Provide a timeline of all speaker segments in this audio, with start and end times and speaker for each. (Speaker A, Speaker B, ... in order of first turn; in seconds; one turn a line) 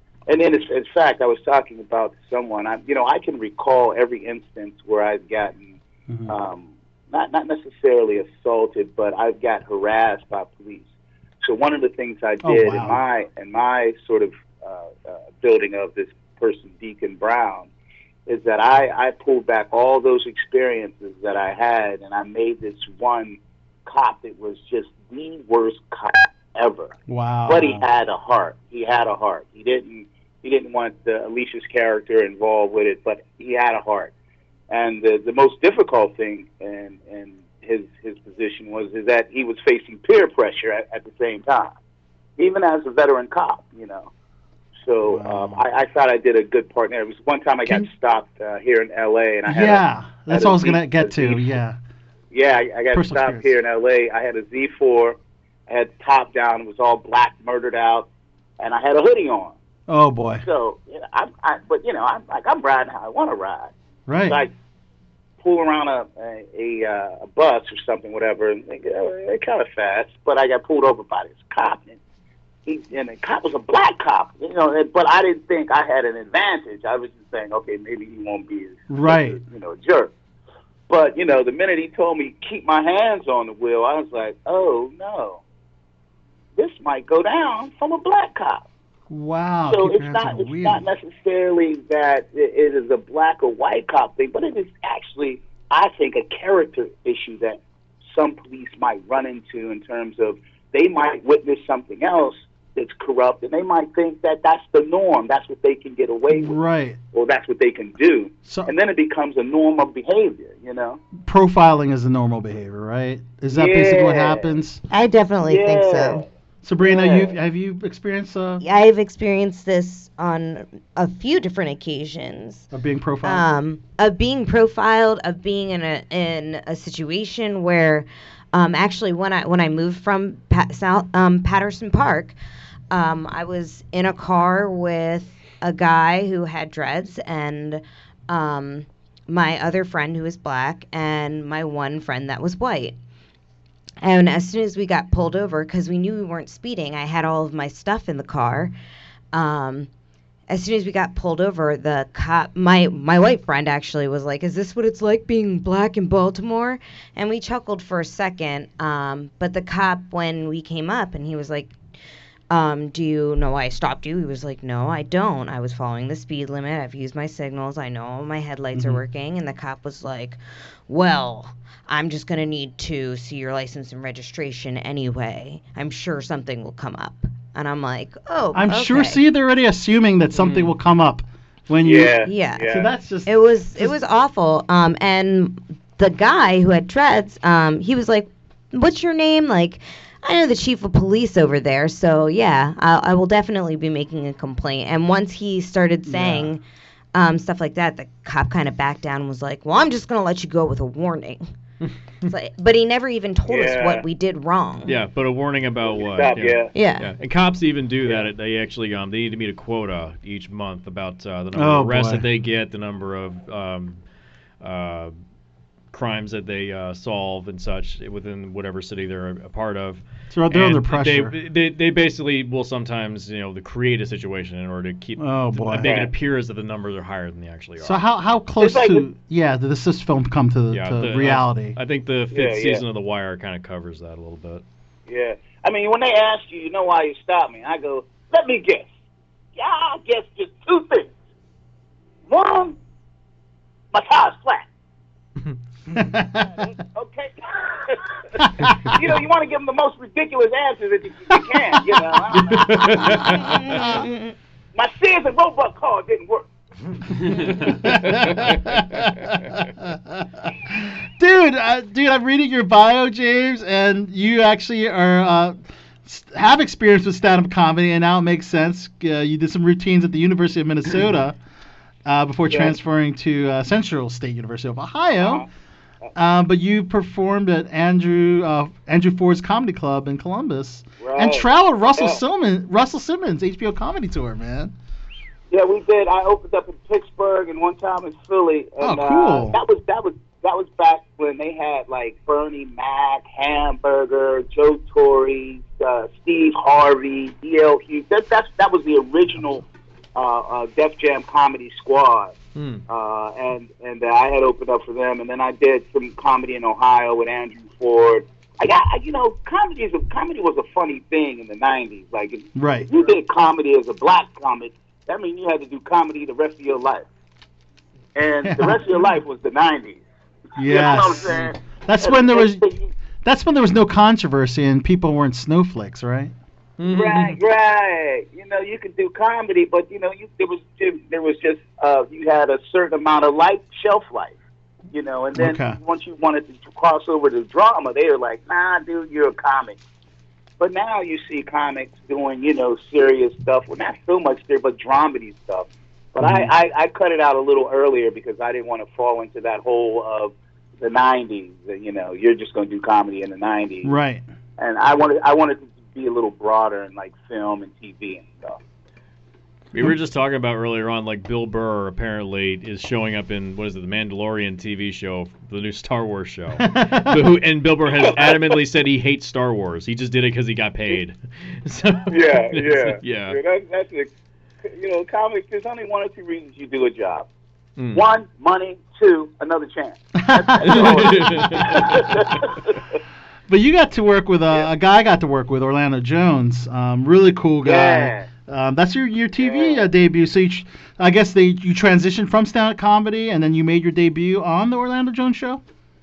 Speaker A: 0.3-5.8
Speaker B: 6.1-6.3
Speaker A: 6.3-10.9
Speaker A: 11.4-17.7
Speaker B: 12.4-13.0
Speaker A: 18.3-26.9
Speaker B: 27.1-27.8
Speaker A: 27.5-34.1
Speaker A: 34.7-41.7
Speaker A: 42.4-44.1
Speaker A: 44.8-51.6
Speaker B: 45.0-45.6
Speaker B: 49.5-51.8
Speaker A: 52.3-59.5
Speaker B: 52.9-53.5
Speaker B: 59.9-60.4
Speaker A: 60.4-63.7
Speaker B: 64.1-64.4
Speaker A: 65.4-72.0
Speaker A: 72.7-80.1
Speaker B: 78.9-79.4
Speaker A: 80.9-85.4
Speaker A: 86.5-88.6
Speaker B: 89.1-90.8
Speaker A: 89.7-106.6
Speaker B: 106.3-107.0
Speaker A: 107.1-111.0
Speaker B: 111.2-114.8
Speaker A: 113.5-114.6
Speaker C: 114.9-116.2
Speaker A: 115.4-116.3
Speaker B: 116.6-118.6
Speaker A: 116.8-117.4
Speaker C: 118.6-122.7
Speaker B: 122.7-123.5
Speaker C: 123.2-132.3
Speaker C: 132.9-142.9
Speaker C: 144.0-148.7
Speaker C: 149.3-149.9
Speaker C: 150.5-161.7
Speaker C: 162.5-179.2
Speaker B: 168.7-169.0
Speaker B: 178.5-183.9
Speaker D: 180.3-180.7
Speaker A: 181.8-182.9
Speaker C: 182.2-182.7
Speaker C: 183.2-196.6
Speaker B: 196.1-196.5
Speaker C: 197.1-201.4
Speaker C: 202.2-204.9
Speaker A: 203.5-204.0
Speaker D: 204.9-214.0
Speaker A: 205.8-206.7
Speaker C: 206.7-207.1
Speaker B: 211.5-212.2
Speaker D: 214.6-215.1
Speaker D: 215.9-228.0
Speaker B: 220.3-221.3
Speaker B: 225.2-225.9
Speaker A: 225.8-226.1
Speaker B: 227.8-231.8
Speaker A: 228.6-229.0
Speaker D: 230.7-234.6
Speaker A: 232.3-232.8
Speaker A: 235.1-238.9
Speaker A: 239.5-241.1
Speaker A: 242.3-242.8
Speaker A: 243.9-244.7
Speaker B: 245.9-246.6
Speaker A: 246.6-248.2
Speaker B: 248.4-248.9
Speaker A: 248.8-253.2
Speaker D: 252.5-253.8
Speaker C: 253.3-254.3
Speaker A: 254.7-256.4
Speaker D: 257.3-259.0
Speaker B: 257.3-271.4
Speaker B: 272.0-275.4
Speaker A: 272.5-272.7
Speaker A: 275.2-275.5
Speaker B: 276.1-284.7
Speaker A: 281.0-282.2
Speaker A: 285.5-302.3
Speaker B: 288.8-289.6
Speaker D: 302.6-302.8
Speaker A: 302.9-317.1
Speaker B: 312.5-312.9
Speaker A: 318.1-320.0
Speaker B: 318.4-318.9
Speaker B: 320.6-322.6
Speaker A: 320.6-322.9
Speaker B: 323.2-326.3
Speaker D: 326.8-327.4
Speaker A: 326.9-334.3
Speaker A: 334.9-339.8
Speaker B: 335.3-335.8
Speaker A: 340.6-353.9
Speaker B: 346.2-346.5
Speaker B: 353.8-354.2
Speaker A: 354.6-358.6
Speaker D: 359.7-373.4
Speaker B: 366.6-367.2
Speaker A: 367.9-368.6
Speaker A: 372.1-374.1
Speaker A: 374.6-377.3
Speaker D: 377.8-378.0
Speaker A: 377.9-382.9
Speaker B: 380.2-381.7
Speaker D: 380.6-382.2
Speaker B: 383.5-395.6
Speaker A: 387.6-388.3
Speaker A: 389.4-389.9